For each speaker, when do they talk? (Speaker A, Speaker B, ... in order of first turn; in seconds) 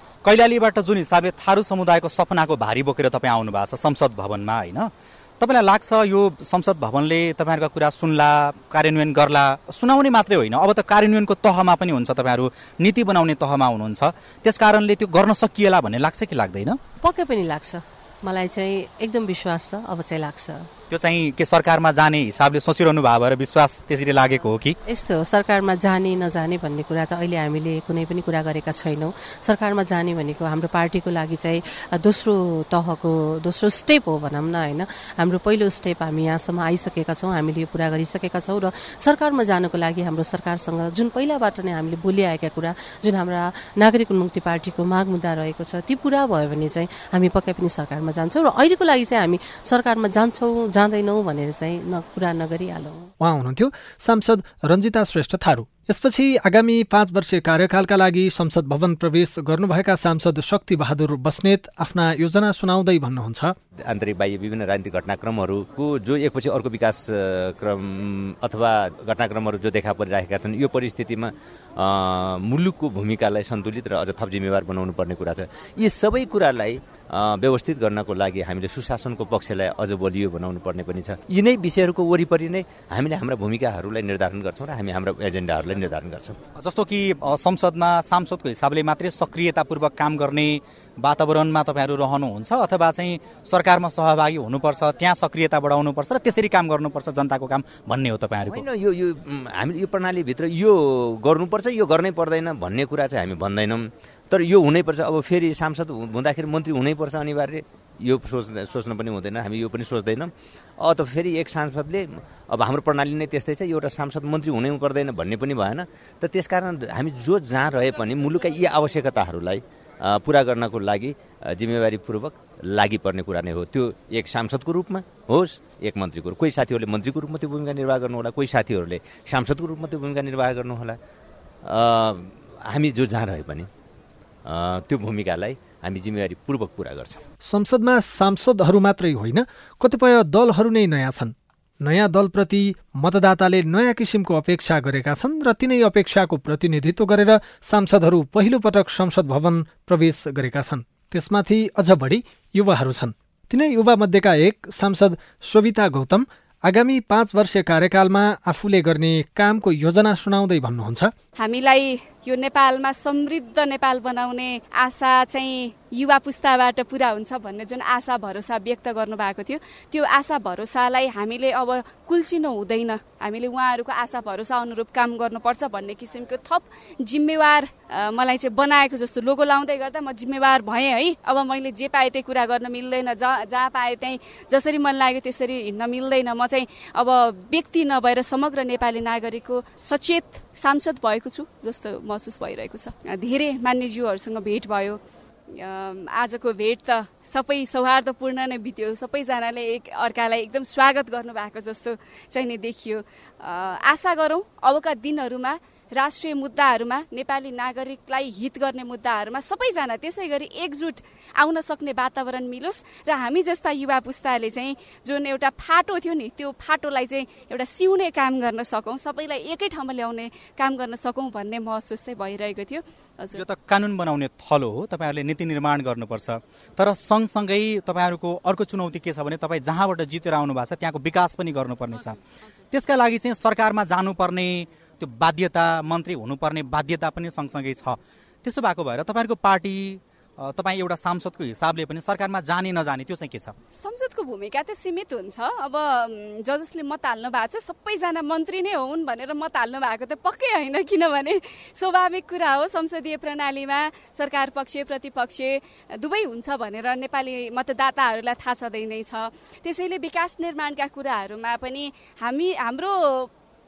Speaker A: 0.2-16.8, 20.9-24.8, 86.6-98.6, 223.3-232.2, 232.7-243.5
Speaker B: 17.0-20.7, 24.9-53.1
Speaker C: 53.2-63.5, 137.4-161.1
Speaker D: 63.9-86.4, 98.5-131.0, 131.6-133.7, 134.4-137.2
Speaker E: 161.4-195.0, 195.5-223.4, 243.7-263.3